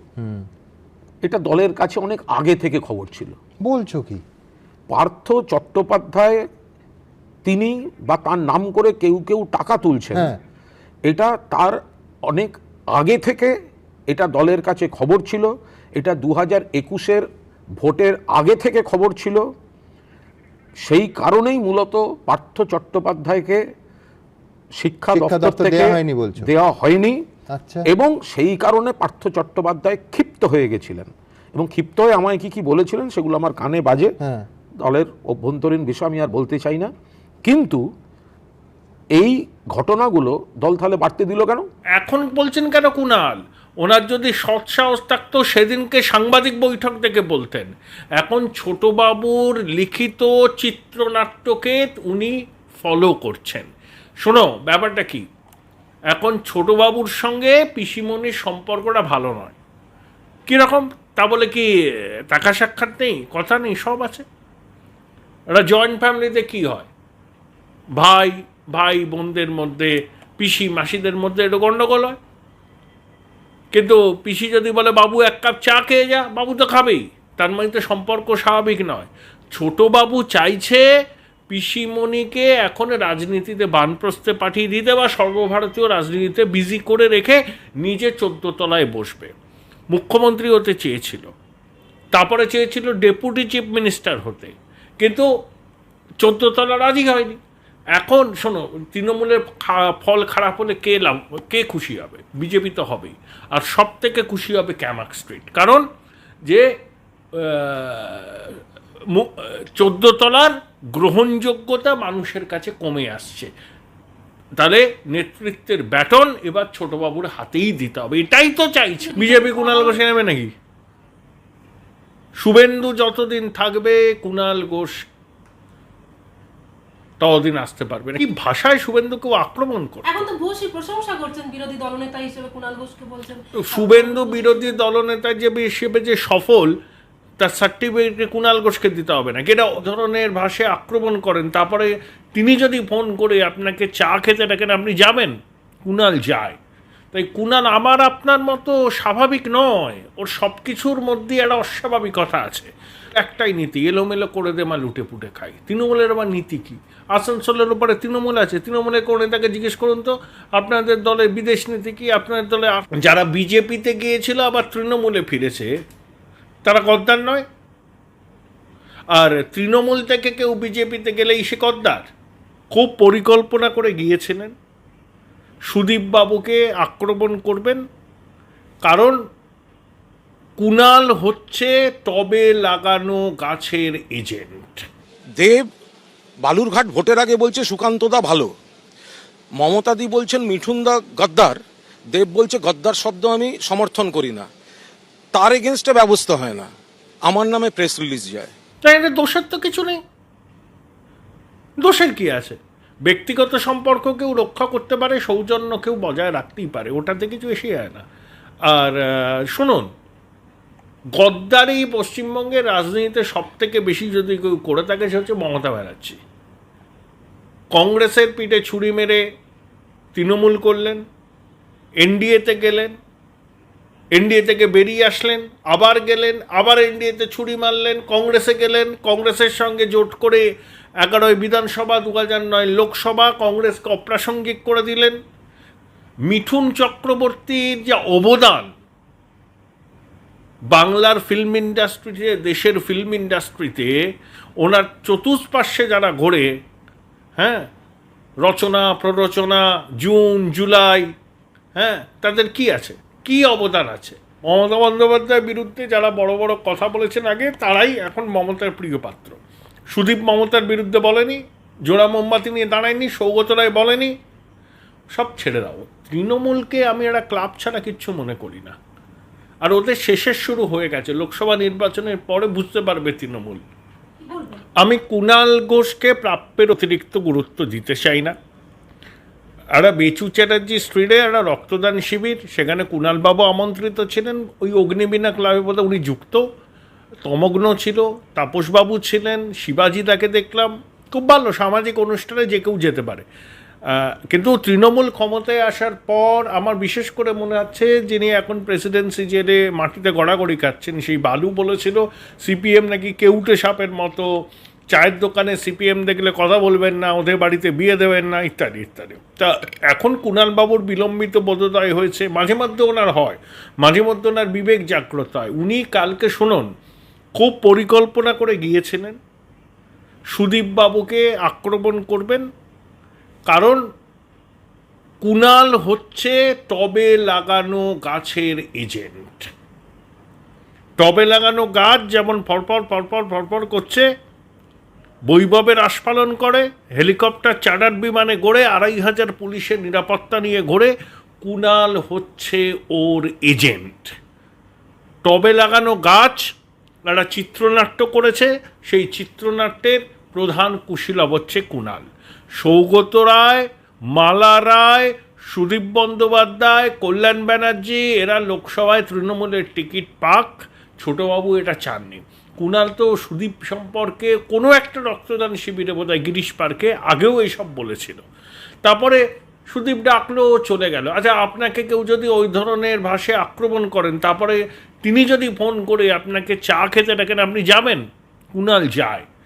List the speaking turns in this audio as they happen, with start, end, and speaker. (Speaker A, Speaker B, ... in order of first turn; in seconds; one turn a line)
Speaker A: 0.2-0.5
Speaker B: 1.2-3.3
Speaker A: 3.6-4.2
Speaker B: 4.9-6.4
Speaker B: 7.4-10.3
Speaker A: 10.1-10.4
Speaker B: 11.1-11.8
Speaker B: 12.3-13.5
Speaker B: 14.1-17.3
Speaker B: 17.8-19.4
Speaker B: 20.8-23.6
Speaker B: 24.8-27.2
Speaker A: 25.1-26.5
Speaker A: 27.5-27.9
Speaker B: 27.9-34.1
Speaker A: 34.2-34.5
Speaker B: 34.8-36.9
Speaker B: 37.5-37.8
Speaker B: 39.2-41.6
Speaker C: 42.0-53.7
Speaker C: 54.2-55.2
Speaker C: 56.1-59.5
Speaker C: 60.5-61.7
Speaker C: 62.3-64.2
Speaker C: 65.5-66.9
Speaker C: 68.0-72.2
Speaker C: 73.7-80.8
Speaker C: 81.5-89.3
Speaker C: 89.9-91.3
Speaker C: 92.1-95.3
Speaker C: 96.2-97.4
Speaker C: 98.0-105.8
Speaker C: 107.4-108.6
Speaker C: 109.1-113.5
Speaker C: 114.6-120.5
Speaker D: 119.0-120.0
Speaker C: 122.4-124.9
Speaker C: 127.2-130.2
Speaker D: 130.0-134.8
Speaker C: 133.6-136.7
Speaker C: 137.4-145.3
Speaker C: 145.8-146.6
Speaker C: 147.1-165.7
Speaker C: 166.6-167.4
Speaker C: 169.1-172.0
Speaker C: 172.7-174.5
Speaker C: 175.7-177.8
Speaker C: 178.8-179.2
Speaker C: 180.6-184.8
Speaker E: 185.4-185.7
Speaker E: 186.4-188.5
Speaker E: 189.6-191.6
Speaker E: 192.1-194.5
Speaker E: 195.3-196.7
Speaker E: 197.3-198.5
Speaker C: 198.8-200.0
Speaker C: 201.8-208.0
Speaker C: 208.7-209.9
Speaker C: 211.2-216.2
Speaker C: 217.7-219.2
Speaker C: 220.1-221.0
Speaker C: 222.0-222.9
Speaker C: 224.1-230.4
Speaker C: 231.0-235.2
Speaker C: 236.3-238.7
Speaker C: 240.7-243.9
Speaker C: 244.6-246.5
Speaker C: 247.4-247.7
Speaker C: 248.4-251.1
Speaker C: 251.8-259.4
Speaker C: 259.9-264.1
Speaker C: 265.1-268.8
Speaker C: 269.6-273.6
Speaker D: 274.2-274.6
Speaker C: 274.8-278.3
Speaker C: 279.8-286.4
Speaker C: 287.2-293.2
Speaker C: 293.9-304.3
Speaker C: 304.9-316.7
Speaker C: 317.4-319.2
Speaker C: 320.3-322.4
Speaker C: 323.5-323.8
Speaker C: 325.2-329.5
Speaker C: 331.0-334.0
Speaker C: 335.3-340.9
Speaker C: 341.4-344.1
Speaker C: 345.2-346.4
Speaker C: 347.1-352.1
Speaker C: 352.6-368.2
Speaker C: 368.8-378.0
Speaker C: 378.6-379.2